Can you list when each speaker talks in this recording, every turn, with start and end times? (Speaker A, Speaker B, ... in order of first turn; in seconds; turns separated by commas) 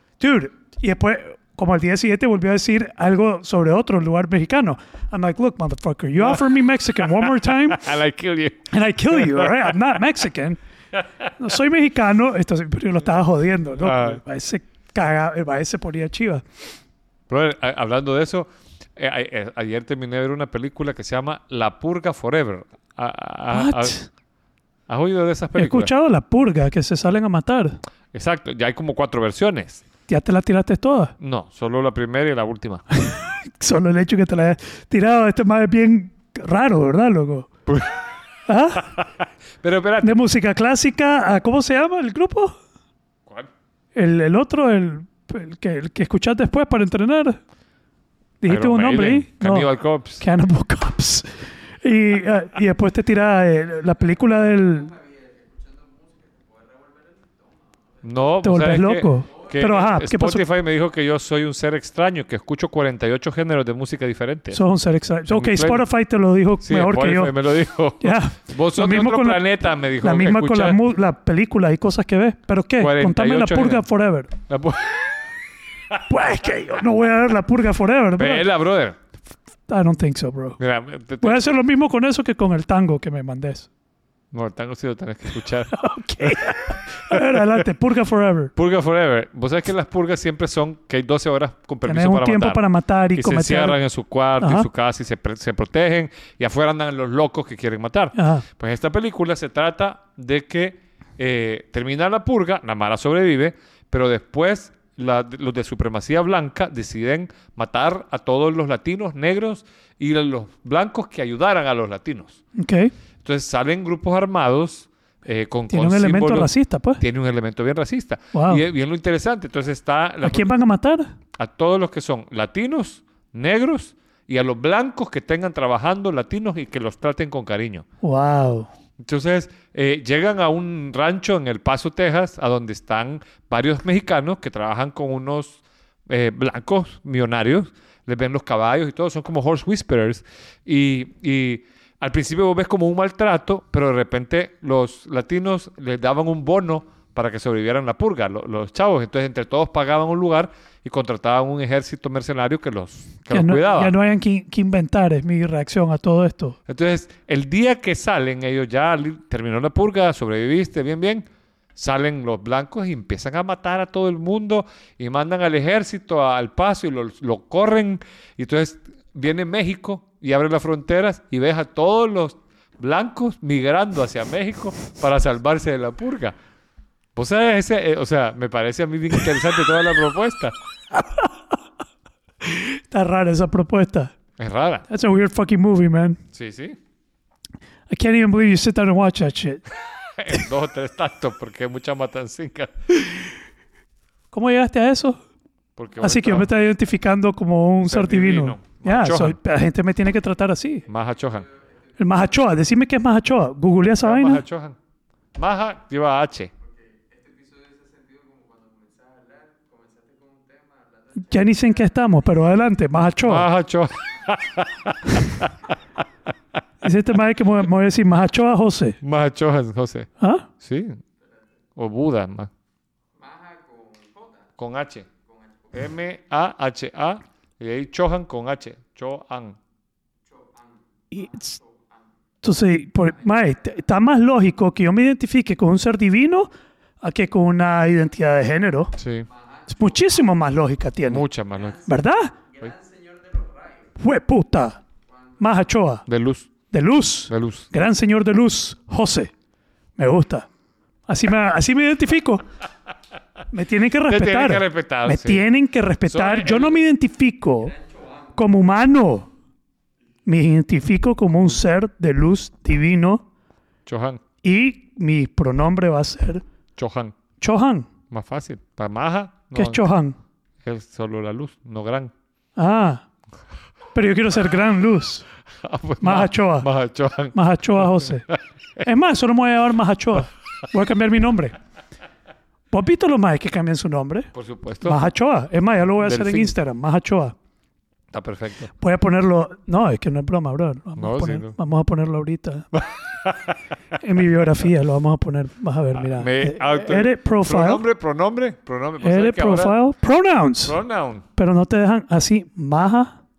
Speaker A: 0.2-7.9, Speaker B: 6.2-9.7, Speaker A: 8.7-10.6, Speaker A: 11.4-16.4, Speaker B: 13.8-14.2, Speaker B: 17.3-24.0, Speaker A: 23.5-24.1, Speaker B: 24.9-25.9, Speaker A: 25.6-27.8, Speaker B: 28.1-29.8, Speaker A: 30.1-31.1, Speaker B: 31.2-32.8, Speaker A: 32.9-37.5, Speaker B: 37.7-38.1, Speaker A: 38.5-39.0, Speaker B: 38.9-40.2, Speaker A: 40.0-42.5, Speaker A: 43.9-47.4, Speaker A: 48.4-49.7, Speaker B: 48.5-50.2, Speaker A: 50.2-54.9, Speaker C: 54.5-58.2, Speaker B: 58.0-64.6, Speaker A: 58.4-60.4, Speaker C: 59.3-59.6, Speaker A: 64.5-67.3, Speaker B: 65.3-65.8, Speaker B: 66.6-70.8, Speaker A: 68.0-74.3, Speaker B: 72.8-73.8, Speaker B: 74.5-75.2, Speaker A: 76.1-78.5, Speaker B: 78.2-79.0, Speaker A: 79.7-80.6, Speaker B: 80.6-81.5, Speaker A: 81.2-83.7, Speaker B: 84.3-86.4, Speaker A: 85.7-88.5, Speaker B: 87.1-87.4, Speaker B: 88.5-92.6, Speaker A: 91.8-93.8, Speaker B: 93.1-112.4, Speaker A: 94.4-94.7, Speaker A: 98.2-98.4, Speaker A: 112.5-112.9, Speaker B: 113.2-120.5, Speaker A: 115.7-117.0, Speaker A: 118.3-118.6, Speaker A: 120.2-121.1, Speaker B: 121.3-127.8, Speaker A: 128.0-128.7, Speaker B: 129.0-153.9, Speaker A: 153.3-156.6, Speaker B: 156.7-176.3, Speaker B: 177.2-180.5, Speaker A: 180.9-181.3, Speaker A: 182.4-184.1, Speaker B: 184.4-184.8, Speaker A: 184.9-186.2, Speaker B: 186.3-186.8, Speaker A: 187.9-189.6, Speaker B: 190.2-193.3, Speaker A: 194.3-195.2, Speaker B: 195.8-196.5, Speaker A: 196.0-200.8, Speaker B: 197.8-199.4, Speaker B: 200.9-201.5, Speaker C: 201.3-202.4, Speaker A: 202.0-204.4, Speaker B: 204.0-204.8, Speaker B: 205.3-206.5, Speaker C: 206.6-212.4, Speaker A: 211.2-213.5, Speaker B: 213.2-215.7, Speaker A: 215.1-215.4, Speaker A: 216.8-219.0, Speaker B: 219.0-220.1, Speaker A: 220.2-220.5, Speaker B: 220.6-221.0, Speaker C: 221.2-221.4, Speaker B: 221.8-222.5, Speaker C: 223.1-224.5, Speaker B: 224.6-225.1, Speaker C: 225.1-225.8, Speaker B: 225.7-229.6, Speaker C: 230.2-232.1, Speaker A: 231.1-231.6, Speaker A: 232.4-236.5, Speaker A: 237.0-238.9, Speaker B: 239.0-239.3, Speaker C: 239.3-240.3, Speaker A: 239.7-241.2, Speaker B: 241.1-241.8, Speaker C: 241.5-243.9, Speaker A: 241.8-242.3, Speaker A: 244.0-244.8, Speaker C: 245.1-245.6, Speaker A: 245.4-246.0, Speaker B: 246.1-246.5, Speaker A: 246.7-249.3, Speaker B: 247.3-247.7, Speaker A: 250.0-250.5, Speaker A: 251.1-252.4, Speaker A: 253.5-257.7, Speaker B: 254.1-255.4, Speaker B: 256.1-256.8, Speaker C: 257.8-258.3, Speaker A: 258.4-259.3, Speaker A: 260.2-263.2, Speaker B: 263.9-264.2, Speaker A: 264.4-266.4, Speaker B: 266.8-267.1, Speaker A: 267.4-267.9, Speaker B: 268.1-269.8, Speaker A: 269.5-270.1, Speaker B: 270.6-272.1, Speaker A: 272.6-273.0, Speaker A: 273.9-275.2, Speaker B: 275.6-278.4, Speaker A: 276.0-276.7, Speaker A: 277.3-278.2, Speaker A: 278.8-281.5, Speaker A: 282.7-284.3, Speaker B: 284.3-285.1, Speaker A: 284.8-287.3, Speaker B: 286.0-286.5, Speaker B: 288.1-288.7, Speaker A: 288.8-292.7, Speaker B: 291.0-291.6, Speaker B: 292.7-293.6, Speaker A: 294.0-297.8, Speaker B: 295.9-299.8, Speaker A: 299.0-300.8, Speaker B: 300.6-301.2, Speaker A: 301.4-303.1